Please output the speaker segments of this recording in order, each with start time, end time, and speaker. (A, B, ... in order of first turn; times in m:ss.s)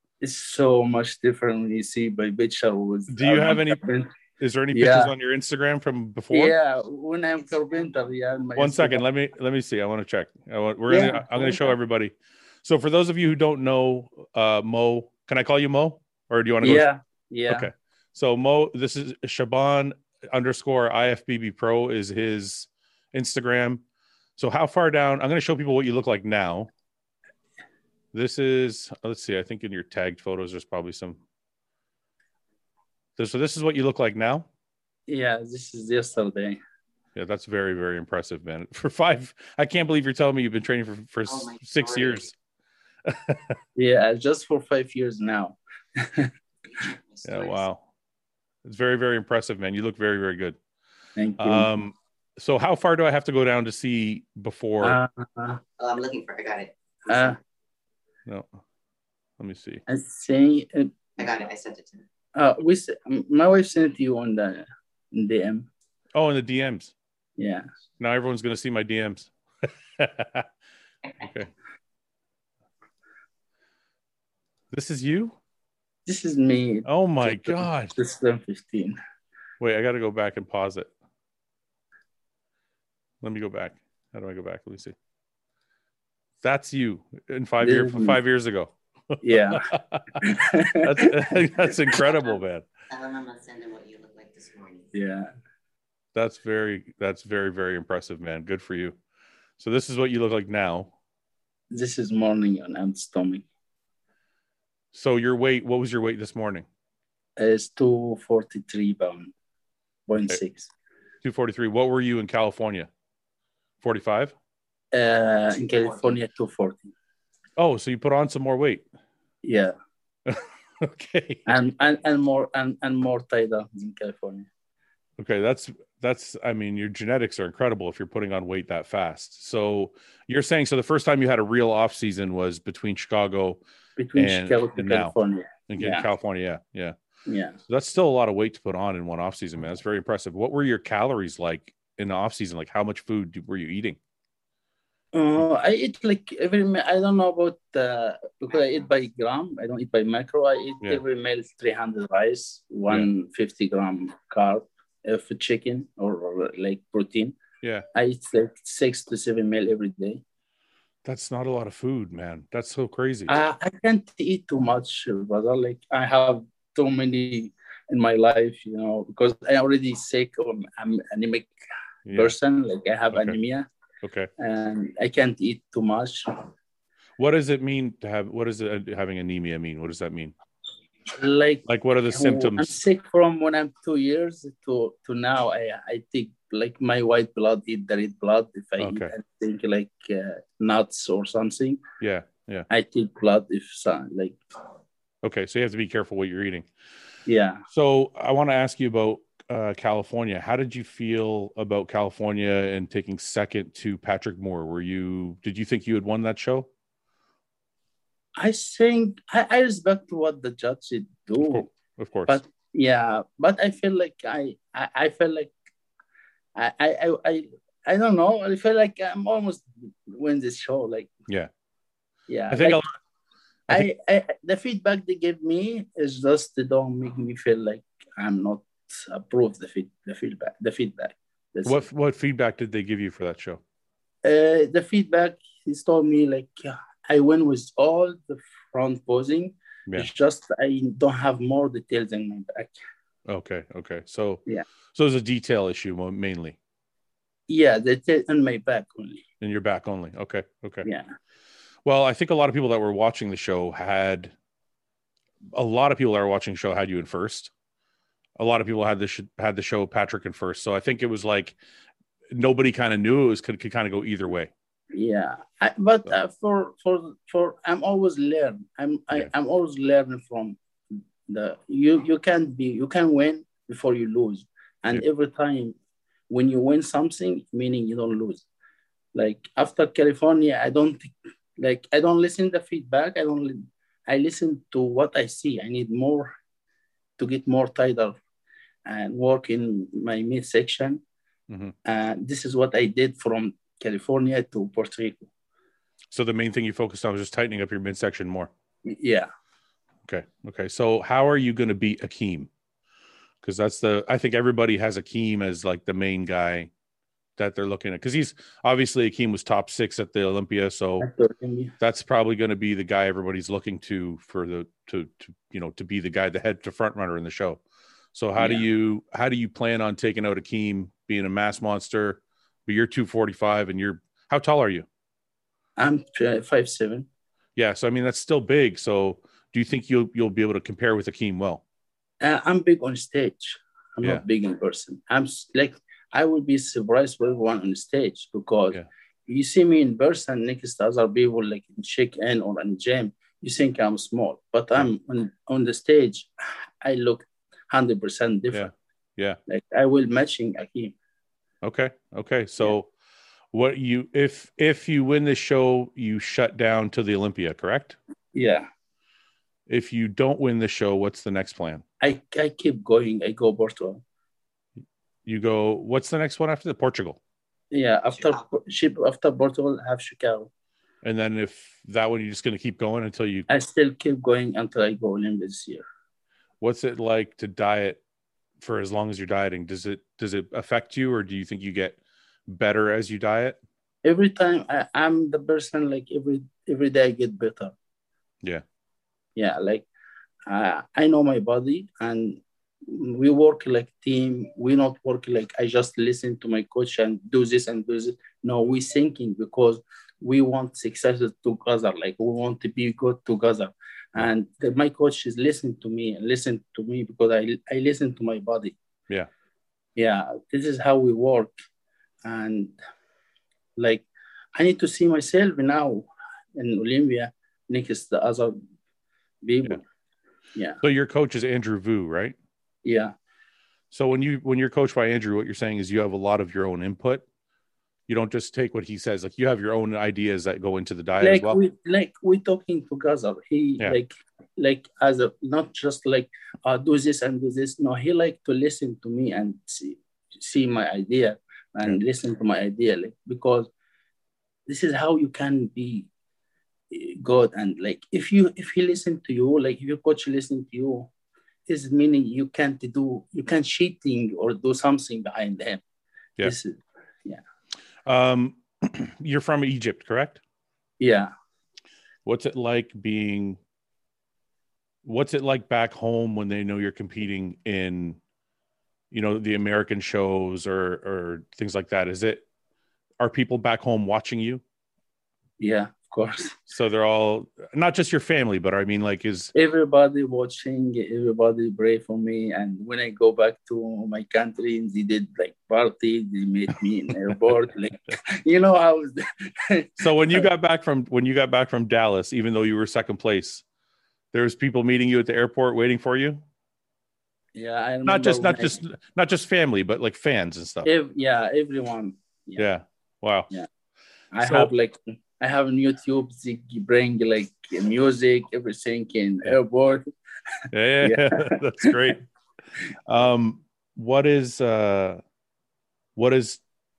0:00.2-0:04.1 A
0:03.1-0:03.8 B
0:04.4-0:06.6 B
0:04.7-0:05.1 A
0:06.3-0:09.0 A
0:08.6-0:16.9 B
0:10.9-0:11.7 A
0:16.6-0:17.7 A
0:17.5-0:23.8 B
0:24.4-0:26.7 B
0:28.1-0:31.2 B
0:33.2-0:34.5 B
0:35.1-0:36.6 A
0:37.2-0:42.4 B
0:41.3-0:42.2 C
0:43.1-0:43.6 B
0:43.8-0:46.3 A
0:46.6-0:47.6 C
0:47.2-0:47.8 B
0:48.6-0:50.6 B
0:51.2-0:51.7 A
0:51.4-0:55.0 B
0:54.8-0:55.6 A
0:55.8-0:57.4 C
0:57.1-0:57.4 A
0:59.4-0:59.8 B
0:59.9-1:01.0 A
1:01.2-1:02.0 C
1:02.4-1:05.7 A
1:06.2-1:06.9 B
1:07.4-1:07.6 A
1:08.0-1:09.3 B
1:10.0-1:10.5 B
1:11.2-1:11.5 B
1:14.7-1:15.4 B
1:16.1-1:19.0 A
1:16.9-1:17.9 B
1:19.6-1:20.9 B
1:23.2-1:25.0 B
1:26.4-1:30.2 B
1:27.6-1:28.2 A
1:29.2-1:29.6 A
1:30.2-1:31.3 A
1:30.8-1:32.6 B
1:31.9-1:34.9 C
1:34.9-1:35.3 A
1:36.2-1:39.0 B
1:39.6-1:40.9 B
1:41.7-1:43.5 A
1:44.9-1:46.7 B
1:47.4-1:49.3 A
1:50.1-1:50.7 A
1:51.2-1:52.9 B
1:53.8-1:54.3 B
1:54.9-1:56.9 A
1:57.6-1:58.8 B
1:59.4-1:59.7 A
2:00.3-2:01.5 B
2:01.5-2:04.5 A
2:05.2-2:13.6 B
2:14.0-2:16.0 A
2:14.2-2:15.1 B
2:15.7-2:17.0 B
2:17.3-2:17.6 A
2:17.7-2:24.0 B
2:25.1-2:37.4 A
2:37.9-2:40.2 A
2:41.0-2:43.3 B
2:43.3-2:51.5 A
2:52.1-2:52.3 B
2:52.1-2:53.7 A
2:53.1-2:53.4 B
2:54.0-2:54.3 B
2:54.4-2:56.5 A
2:57.2-3:00.4 B
3:01.1-3:11.8 A
3:01.7-3:02.8 B
3:08.8-3:09.1 B
3:12.0-3:12.7 B
3:12.7-3:14.4 A
3:15.2-3:16.7 B
3:17.3-3:17.6 A
3:17.7-3:26.7 B
3:28.4-3:31.7 A
3:31.4-3:32.4 B
3:32.3-3:35.5 A
3:36.6-3:41.1 A
3:42.3-3:42.8 A
3:42.5-3:43.0 B
3:43.7-3:51.8 A
3:51.6-3:53.6 B
3:54.2-4:02.8 A
4:03.3-4:06.6 B
4:07.5-4:09.2 A
4:09.4-4:10.9 B
4:10.8-4:11.1 A
4:11.8-4:14.3 B
4:15.5-4:17.5 B
4:18.4-4:21.6 B
4:22.3-4:24.5 B
4:24.9-4:30.6 A
4:31.3-4:35.8 A
4:36.3-4:38.4 A
4:39.2-4:46.3 A
4:47.2-4:48.2 A
4:48.9-4:51.0 A
4:51.5-4:51.7 B
4:51.8-4:55.3 A
4:56.1-4:58.5 B
4:58.8-4:59.3 A
5:00.1-5:02.5 B
5:03.4-5:06.7 B
5:07.4-5:11.1 B
5:11.0-5:11.7 A
5:11.8-5:17.6 B
5:18.1-5:24.9 B
5:18.4-5:18.6 A
5:25.8-5:27.1 A
5:27.6-5:31.6 B
5:32.2-5:46.3 A
5:46.8-5:48.7 A
5:48.5-5:49.4 B
5:49.5-5:51.0 A
5:51.6-5:52.9 B
5:53.5-5:58.0 B
5:58.3-5:58.7 A
5:59.7-6:01.8 B
6:02.0-6:04.0 A
6:05.3-6:07.2 B
6:07.7-6:10.5 A
6:11.0-6:13.5 B
6:13.5-6:15.8 A
6:16.6-6:18.0 B
6:18.6-6:23.6 B
6:24.0-6:27.7 A
6:29.4-6:29.9 A
6:30.5-6:48.8 A
6:50.0-6:51.5 A
6:52.2-6:52.8 A
6:53.8-6:58.6 A
6:59.4-6:59.8 A
7:00.6-7:00.8 A
7:00.8-7:02.4 B
7:02.8-7:03.1 A
7:03.9-7:07.2 B
7:08.1-7:11.6 B
7:11.2-7:23.7 A
7:24.7-7:26.1 A
7:26.9-7:31.1 A
7:31.7-7:35.8 A
7:36.4-7:37.4 A
7:38.1-7:40.4 B
7:41.0-7:41.3 A
7:42.3-7:43.6 B
7:45.0-7:48.2 B
7:49.1-7:52.4 B
7:53.2-7:54.6 B
7:55.6-7:56.6 A
7:56.7-7:59.5 B
7:59.6-8:10.5 A
8:10.0-8:13.6 B
8:14.3-8:16.4 B
8:17.6-8:18.8 A
8:18.0-8:20.9 B
8:20.8-8:22.7 A
8:22.6-8:23.5 B
8:24.3-8:30.0 A
8:24.4-8:24.7 B
8:30.7-8:32.2 B
8:31.0-8:32.1 A
8:33.1-8:35.2 B
8:36.2-8:36.6 B